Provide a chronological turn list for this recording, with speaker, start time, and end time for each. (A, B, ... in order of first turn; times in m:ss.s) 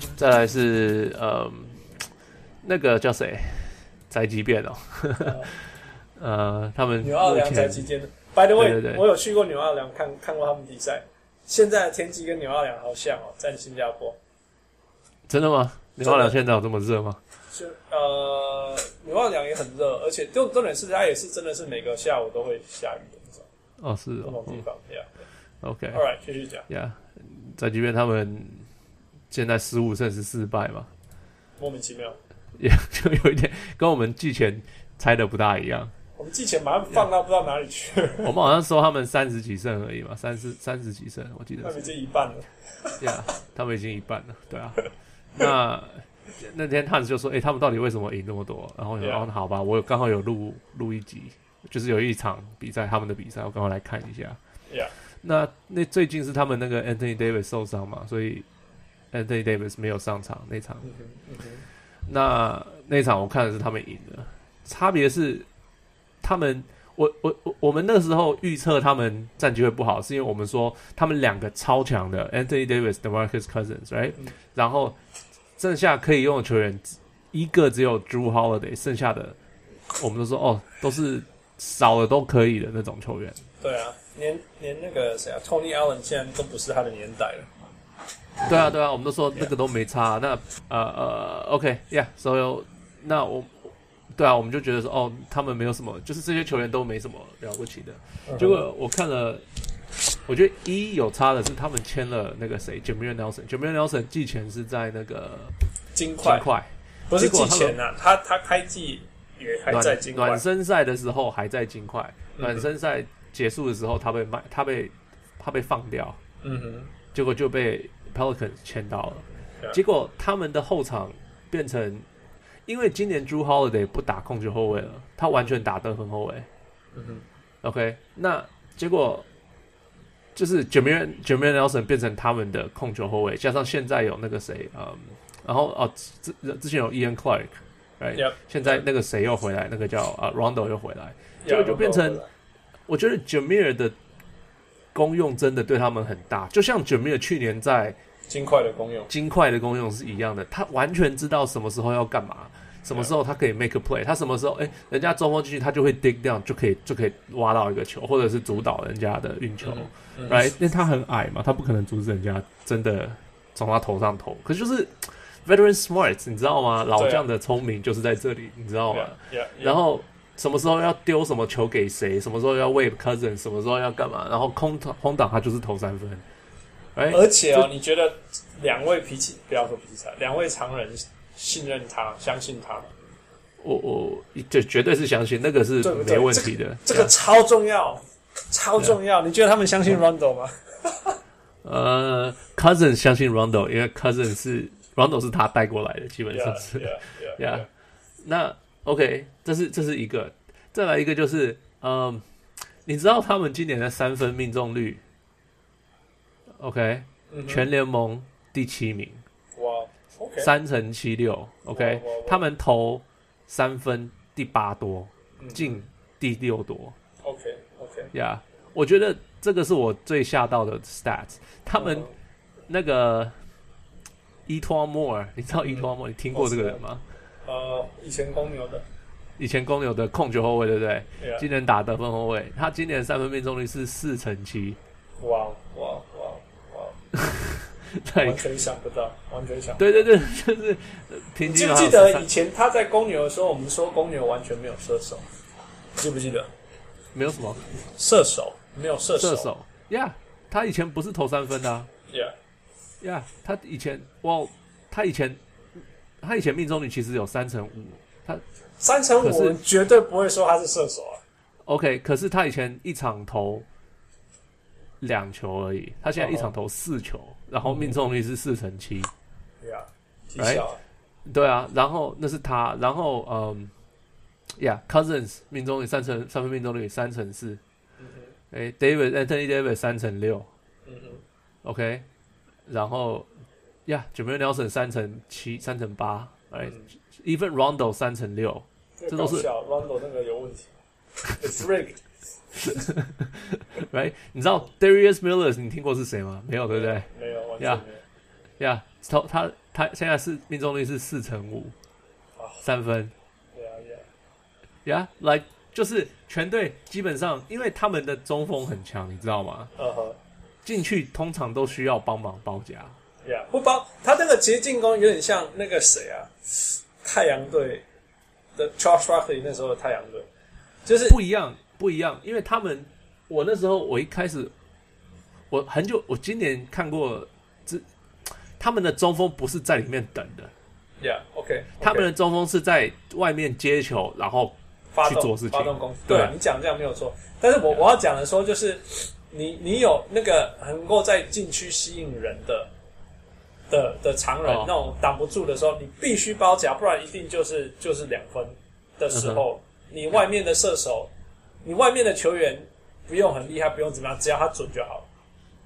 0:00.2-0:01.8 A
0:02.6-0:05.5 A
0:05.2-0:05.5 B
0:06.2-0:07.8 A
0:07.0-0:14.2 B
0:08.6-0:09.0 A
0:15.3-0:17.2 A
0:16.0-0:16.4 B
0:17.5-0:23.4 B
0:23.8-0:24.6 A
0:24.2-0:25.2 B
0:25.6-0:26.0 A
0:25.9-0:26.7 B
0:26.7-0:28.7 A
0:29.3-0:30.9 A
0:31.6-0:32.2 B
0:32.6-0:35.9 A
0:36.2-0:38.3 B
0:38.2-0:41.8 A
0:41.6-0:43.0 B
0:43.0-0:44.8 A
0:45.4-0:54.4 A
0:49.0-0:49.2 B
0:55.2-0:58.4 A
0:59.1-1:00.9 A
1:00.8-1:01.6 B
1:02.1-1:05.5 A
1:06.2-1:15.0 A
1:15.6-1:19.4 A
1:19.9-1:23.4 A
1:23.6-1:27.5 B
1:28.4-1:39.4 A
1:38.3-1:38.6 B
1:40.3-1:45.5 A
1:45.9-1:46.4 B
1:46.2-1:47.8 A
1:47.1-1:50.4 B
1:49.7-1:56.2 A
1:52.3-1:52.7 B
1:56.4-1:56.9 B
1:57.1-2:02.1 A
2:02.7-2:06.5 A
2:06.9-2:07.2 B
2:07.6-2:09.2 A
2:10.3-2:22.2 A
2:18.2-2:18.8 B
2:21.4-2:22.3 B
2:22.9-2:23.9 A
2:24.9-2:28.0 A
2:28.3-2:29.1 B
2:29.1-2:56.2 A
2:39.6-2:40.5 B
2:47.0-2:47.2 B
2:48.9-2:49.8 B
2:57.0-2:57.7 A
2:57.1-3:02.9 B
3:03.6-3:07.1 A
3:05.8-3:11.2 B
3:11.6-3:17.7 A
3:16.3-3:17.7 B
3:18.2-3:22.2 A
3:22.8-3:25.0 A
3:26.6-3:29.2 A
3:27.3-3:27.7 B
3:29.6-3:30.5 B
3:30.4-3:36.9 A
3:31.7-3:32.4 B
3:35.4-3:35.8 B
3:37.2-3:38.1 B
3:38.1-3:42.1 A
3:41.8-3:42.1 B
3:42.7-3:43.3 A
3:44.5-3:47.0 A
3:45.7-3:46.8 B
3:47.4-3:48.8 B
3:49.4-3:54.8 A
3:51.2-3:51.5 B
3:55.2-3:57.0 B
3:57.2-3:58.4 A
3:58.2-4:00.1 B
3:59.8-4:02.3 A
4:01.4-4:05.2 B
4:06.0-4:06.5 B
4:07.1-4:07.7 A
4:07.8-4:09.5 B
4:09.2-4:11.9 A
4:12.1-4:12.3 B
4:13.0-4:15.4 A
4:16.2-4:18.4 A
4:18.8-4:21.2 B
4:19.2-4:19.6 A
4:21.6-4:23.6 A
4:25.0-4:29.1 A
4:26.2-4:26.5 B
4:27.6-4:28.0 B
4:29.6-4:30.8 B
4:30.4-4:30.6 A
4:31.2-4:33.7 A
4:34.6-4:37.6 A
4:38.0-4:38.3 B
4:38.5-4:40.5 A
4:40.9-4:41.2 B
4:41.6-4:42.0 A
4:42.7-4:43.3 A
4:43.9-4:49.5 A
4:46.6-4:46.9 B
4:49.0-4:50.7 B
4:51.4-4:52.9 B
4:52.8-4:57.1 A
4:56.7-4:58.0 B
4:57.6-4:57.8 A
4:58.6-5:01.8 A
5:02.4-5:02.6 B
5:02.6-5:03.1 A
5:03.6-5:04.0 B
5:04.8-5:09.7 A
5:09.8-5:10.2 B
5:10.6-5:12.9 A
5:13.2-5:17.8 B
5:18.6-5:20.3 B
5:20.8-5:21.2 B
5:21.1-5:24.5 A
5:25.5-5:27.8 A
5:28.6-5:30.5 A
5:31.0-5:32.1 B
5:31.8-5:36.3 A
5:34.9-5:42.7 B
5:43.7-5:51.1 B
5:44.4-5:44.7 A
5:49.1-5:49.4 A
5:51.6-5:55.1 B